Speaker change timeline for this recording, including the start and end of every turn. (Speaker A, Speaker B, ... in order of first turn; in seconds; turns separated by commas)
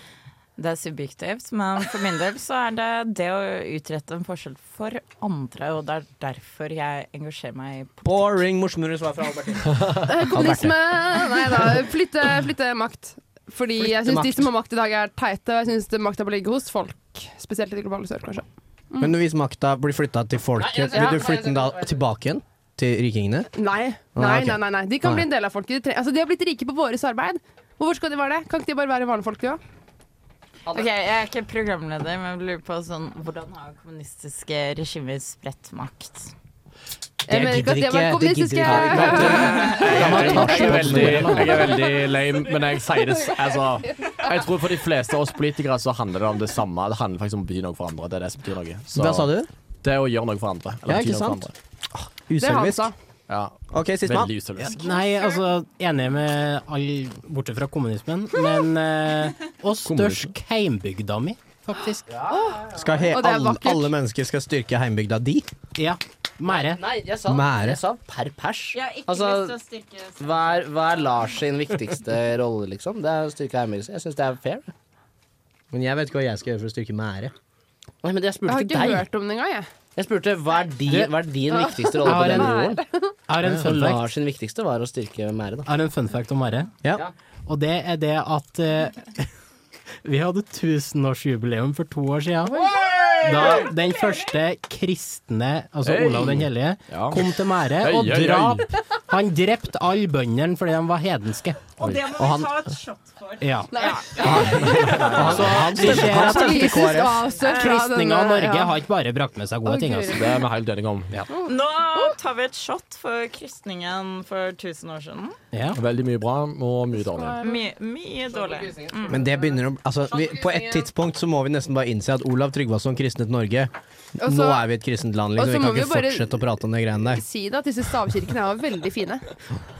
Speaker A: 0.6-8.4, Speaker B: 8.0-11.7, Speaker C: 10.0-19.1, Speaker B: 13.8-14.5, Speaker B: 19.0-23.5, Speaker D: 20.6-22.0, Speaker C: 23.5-29.6, Speaker B: 24.1-25.2, Speaker A: 30.7-36.3, Speaker C: 37.3-40.7, Speaker B: 37.3-41.7, Speaker E: 38.7-49.3, Speaker F: 40.0-41.6, Speaker B: 48.9-49.5, Speaker E: 49.8-51.5, Speaker B: 50.9-52.9, Speaker C: 52.4-52.9, Speaker E: 53.3-54.9, Speaker B: 53.7-54.3, Speaker F: 54.7-62.1, Speaker A: 54.8-55.3, Speaker E: 59.9-60.3, Speaker D: 62.1-63.0, Speaker C: 62.3-63.9, Speaker B: 62.7-65.5, Speaker F: 65.8-66.8, Speaker D: 66.5-69.6, Speaker B: 67.2-67.8, Speaker A: 68.7-71.0, Speaker D: 70.2-74.7, Speaker B: 75.7-77.3, Speaker D: 78.0-79.1, Speaker C: 78.5-79.7, Speaker D: 79.9-82.8, Speaker C: 81.5-83.1, Speaker F: 82.0-82.6, Speaker F: 83.3-84.1, Speaker D: 83.5-85.7, Speaker F: 85.7-86.7, Speaker F: 87.5-89.2, Speaker F: 90.0-92.7, Speaker E: 92.7-93.7, Speaker F: 93.2-101.7, Speaker E: 95.8-98.7, Speaker A: 101.8-105.3, Speaker B: 102.1-102.7, Speaker F: 103.4-103.8, Speaker C: 103.7-105.0, Speaker D: 104.2-105.0, Speaker B: 104.2-104.5, Speaker E: 104.3-105.8, Speaker B: 105.0-107.2, Speaker F: 105.2-110.2, Speaker C: 105.8-108.8, Speaker A: 107.3-107.8, Speaker C: 109.6-110.4, Speaker E: 110.1-111.2, Speaker C: 111.3-112.1, Speaker A: 111.4-115.4, Speaker F: 115.5-115.8, Speaker E: 115.7-117.4, Speaker C: 117.0-117.6, Speaker A: 117.4-119.3, Speaker D: 118.2-120.9, Speaker B: 119.1-127.2, Speaker C: 124.2-124.6, Speaker C: 125.4-126.4, Speaker C: 127.1-129.2